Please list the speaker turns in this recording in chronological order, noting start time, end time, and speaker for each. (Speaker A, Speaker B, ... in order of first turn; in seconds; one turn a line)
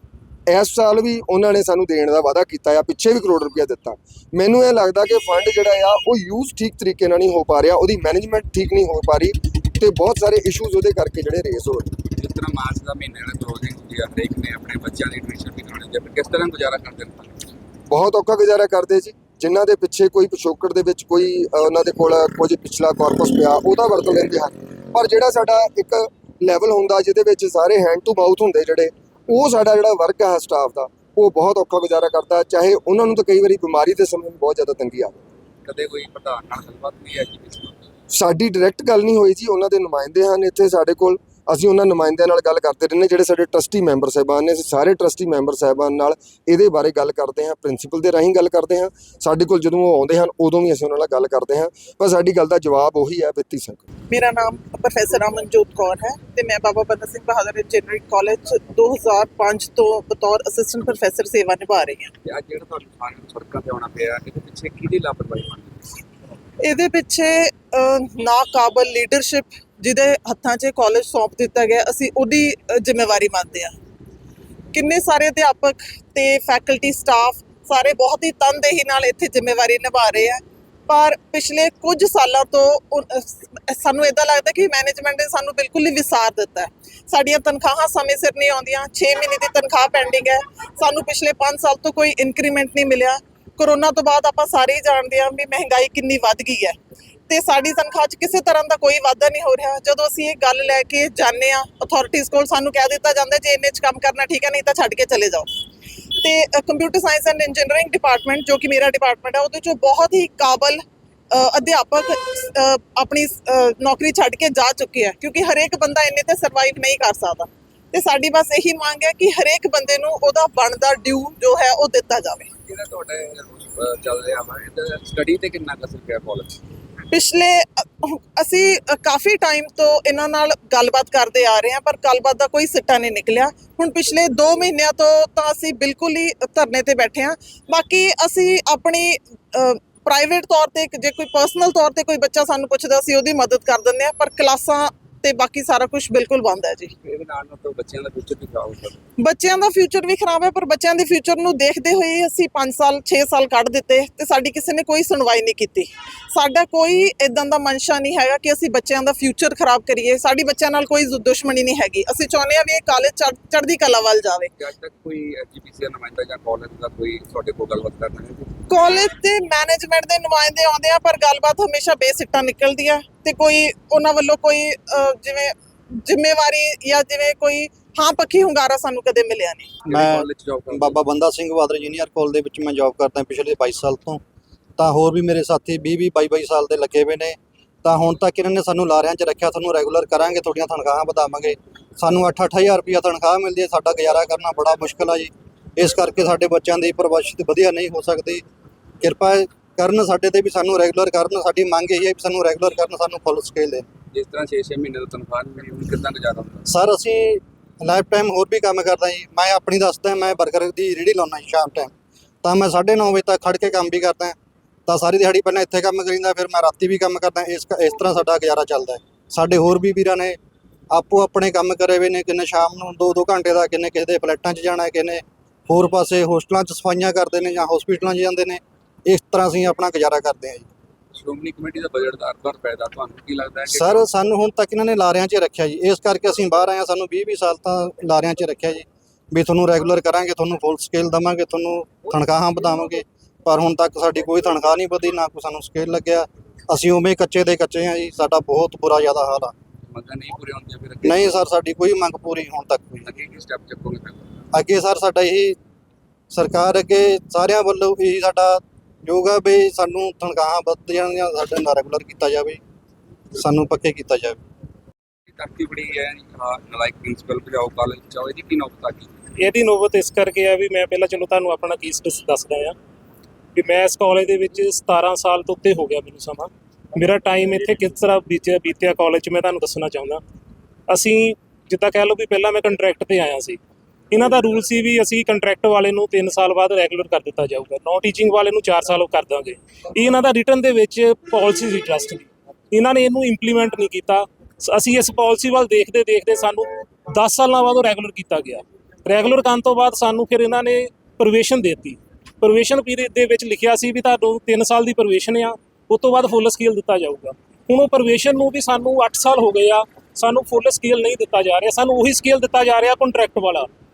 Speaker A: 0.5-11.9
Speaker B: 12.1-17.3
Speaker A: 17.9-35.2
Speaker B: 35.7-37.9
Speaker A: 38.1-53.8
Speaker C: 54.1-62.1
Speaker B: 62.2-65.7
Speaker C: 66.7-73.7
Speaker C: 74.7-96.8
Speaker C: 97.3-105.5
Speaker C: 106.2-110.8
Speaker C: 111.3-122.5
Speaker B: 122.7-126.6
Speaker C: 127.1-146.9
Speaker B: 147.0-149.0
Speaker C: 149.2-164.5
Speaker B: 164.6-168.5
Speaker C: 168.7-179.8
Speaker D: 179.8-184.2
Speaker B: 179.9-181.0
Speaker D: 184.8-198.4
Speaker D: 199.0-203.8
Speaker B: 204.1-206.7
Speaker D: 206.7-211.9
Speaker D: 212.4-214.3
Speaker D: 214.9-220.4
Speaker D: 220.9-230.7
Speaker B: 231.1-234.1
Speaker D: 233.7-249.5
Speaker B: 249.9-251.5
Speaker D: 251.0-253.1
Speaker B: 253.0-254.5
Speaker D: 254.5-255.6
Speaker D: 256.3-262.6
Speaker D: 263.4-264.4
Speaker B: 265.3-269.3
Speaker E: 269.4-272.8
Speaker E: 273.6-280.2
Speaker E: 280.9-283.6
Speaker E: 284.1-313.7